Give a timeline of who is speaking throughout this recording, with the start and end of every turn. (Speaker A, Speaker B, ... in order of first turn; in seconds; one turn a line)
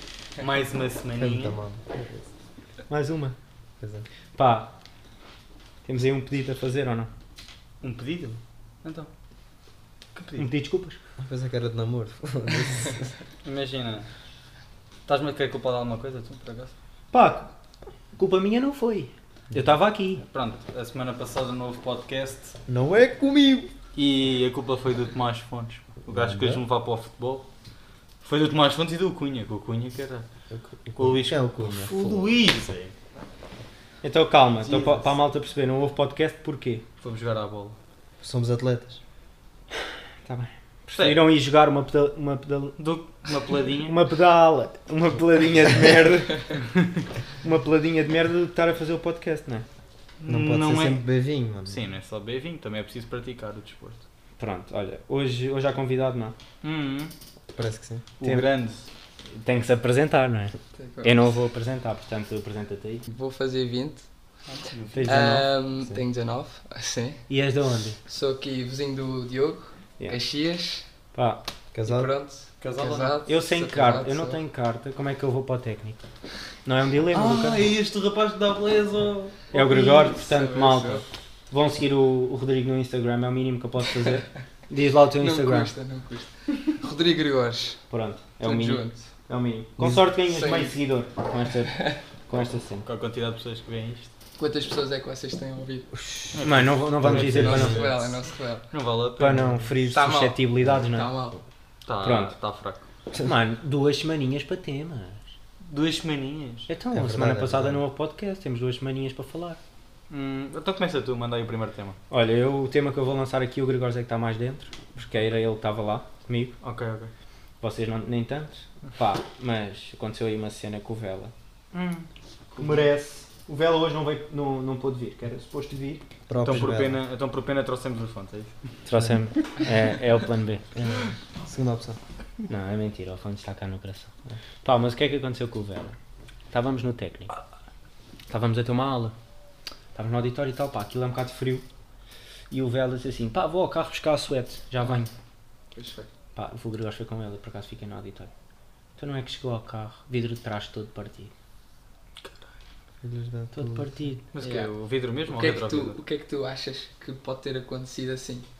Speaker A: 0.4-1.6
Speaker B: 1.2-2.3
Speaker C: 2.9-3.4
Speaker B: 3.8-4.1
Speaker C: 4.3-4.7
Speaker C: 5.8-7.1
Speaker A: 7.8-9.1
Speaker A: 10.1-10.5
Speaker C: 10.4-11.0
Speaker B: 11.2-13.1
Speaker A: 13.4-14.1
Speaker A: 15.1-16.7
Speaker C: 17.1-17.5
Speaker C: 18.1-20.2
Speaker A: 20.3-22.5
Speaker B: 22.7-23.7
Speaker A: 23.9-27.4
Speaker B: 26.1-26.6
Speaker A: 28.2-30.2
Speaker B: 30.5-32.3
Speaker A: 30.9-32.9
Speaker C: 34.0-36.8
Speaker B: 34.6-35.1
Speaker A: 37.0-37.8
Speaker B: 38.2-39.0
Speaker C: 40.2-42.8
Speaker A: 40.9-41.2
Speaker A: 42.8-44.0
Speaker C: 43.9-46.6
Speaker C: 47.4-49.6
Speaker A: 50.2-51.0
Speaker B: 50.3-51.8
Speaker A: 51.6-54.0
Speaker C: 54.4-56.3
Speaker A: 56.6-57.1
Speaker B: 57.5-58.0
Speaker A: 58.2-58.8
Speaker C: 58.2-58.5
Speaker C: 59.3-63.1
Speaker D: 60.8-61.1
Speaker D: 63.1-64.0
Speaker A: 64.5-65.3
Speaker C: 64.9-65.5
Speaker D: 65.0-67.2
Speaker C: 67.3-68.0
Speaker D: 68.0-70.8
Speaker C: 71.1-71.4
Speaker B: 71.7-72.1
Speaker D: 71.8-74.4
Speaker A: 72.6-73.2
Speaker C: 73.3-76.0
Speaker C: 76.6-77.6
Speaker A: 77.1-79.5
Speaker D: 79.5-81.0
Speaker C: 79.5-85.7
Speaker D: 85.2-87.8
Speaker C: 87.9-92.8
Speaker D: 88.4-89.0
Speaker B: 89.8-90.1
Speaker D: 90.3-90.8
Speaker A: 92.3-94.1
Speaker D: 94.4-95.9
Speaker B: 95.9-96.3
Speaker A: 96.3-97.6
Speaker C: 96.4-97.9
Speaker B: 97.0-98.0
Speaker D: 97.3-98.7
Speaker A: 98.7-99.6
Speaker C: 99.2-101.1
Speaker D: 99.9-101.4
Speaker A: 101.8-102.8
Speaker C: 102.0-102.3
Speaker C: 103.2-105.2
Speaker A: 105.6-106.7
Speaker C: 106.7-109.6
Speaker B: 106.9-107.8
Speaker A: 110.1-112.0
Speaker C: 112.1-116.5
Speaker A: 116.6-117.1
Speaker C: 117.6-121.3
Speaker A: 121.7-122.8
Speaker C: 122.6-126.0
Speaker B: 126.3-127.0
Speaker A: 126.4-128.6
Speaker C: 128.8-130.6
Speaker B: 130.7-132.0
Speaker C: 132.5-134.1
Speaker C: 134.6-135.9
Speaker C: 136.5-137.3
Speaker C: 138.3-139.1
Speaker C: 139.9-141.6
Speaker C: 142.5-145.1
Speaker D: 145.7-146.1
Speaker C: 146.3-148.3
Speaker C: 149.0-151.3
Speaker A: 152.2-152.5
Speaker B: 153.0-153.9
Speaker C: 153.5-154.3
Speaker A: 154.3-156.0
Speaker D: 154.4-154.7
Speaker D: 155.2-158.4